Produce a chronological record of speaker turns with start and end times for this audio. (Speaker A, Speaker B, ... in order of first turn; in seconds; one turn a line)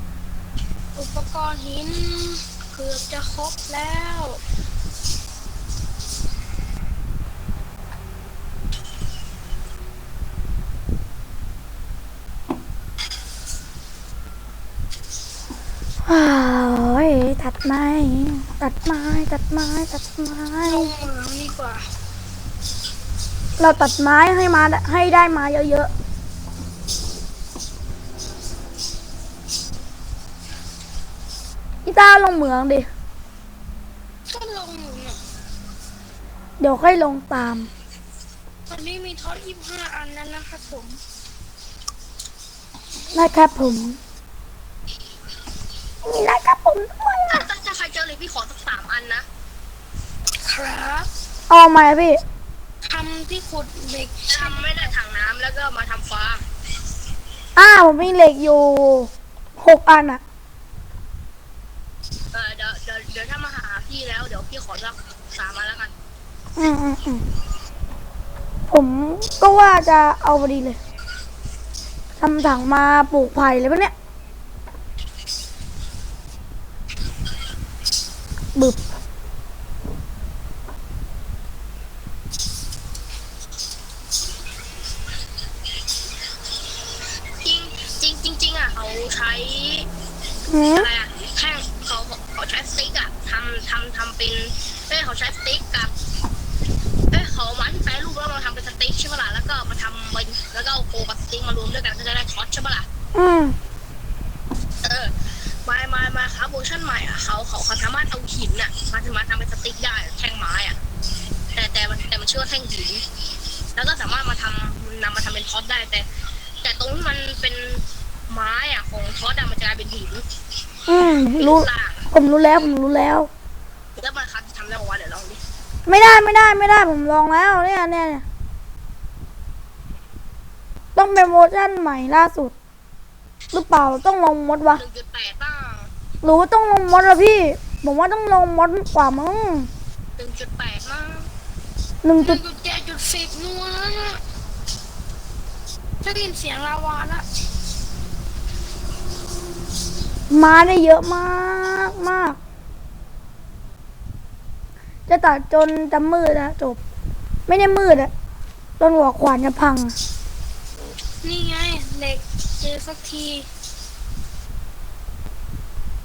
Speaker A: 0.9-4.4
Speaker B: 16.1-20.9
Speaker A: 20.6-21.9
Speaker B: 23.6-25.9
Speaker B: 31.8-32.9
Speaker A: 34.3-35.2
Speaker B: 36.6-37.7
Speaker A: 38.7-41.0
Speaker B: 43.1-44.0
Speaker B: 46.0-47.5
Speaker C: 47.3-49.2
Speaker A: 50.4-51.1
Speaker B: 51.5-52.2
Speaker A: 52.8-54.6
Speaker C: 54.3-56.4
Speaker B: 57.5-60.2
Speaker C: 62.3-65.9
Speaker B: 66.6-67.2
Speaker B: 68.7-70.8
Speaker B: 72.2-73.9
Speaker C: 87.4-89.9
Speaker B: 90.5-90.9
Speaker C: 90.7-95.9
Speaker C: 97.1-102.9
Speaker B: 103.1-103.5
Speaker C: 104.8-110.8
Speaker C: 111.5-113.0
Speaker C: 113.7-116.0
Speaker C: 116.6-120.2
Speaker B: 120.9-123.3
Speaker C: 121.3-122.0
Speaker C: 124.0-125.4
Speaker B: 125.8-128.2
Speaker B: 130.9-132.5
Speaker B: 133.5-134.8
Speaker C: 134.8-135.9
Speaker B: 136.2-139.7
Speaker C: 140.2-141.3
Speaker B: 142.0-142.4
Speaker A: 142.2-144.2
Speaker A: 146.0-147.2
Speaker B: 150.3-152.4
Speaker B: 155.1-156.8
Speaker B: 157.5-158.1
Speaker B: 158.8-159.9
Speaker A: 161.2-163.5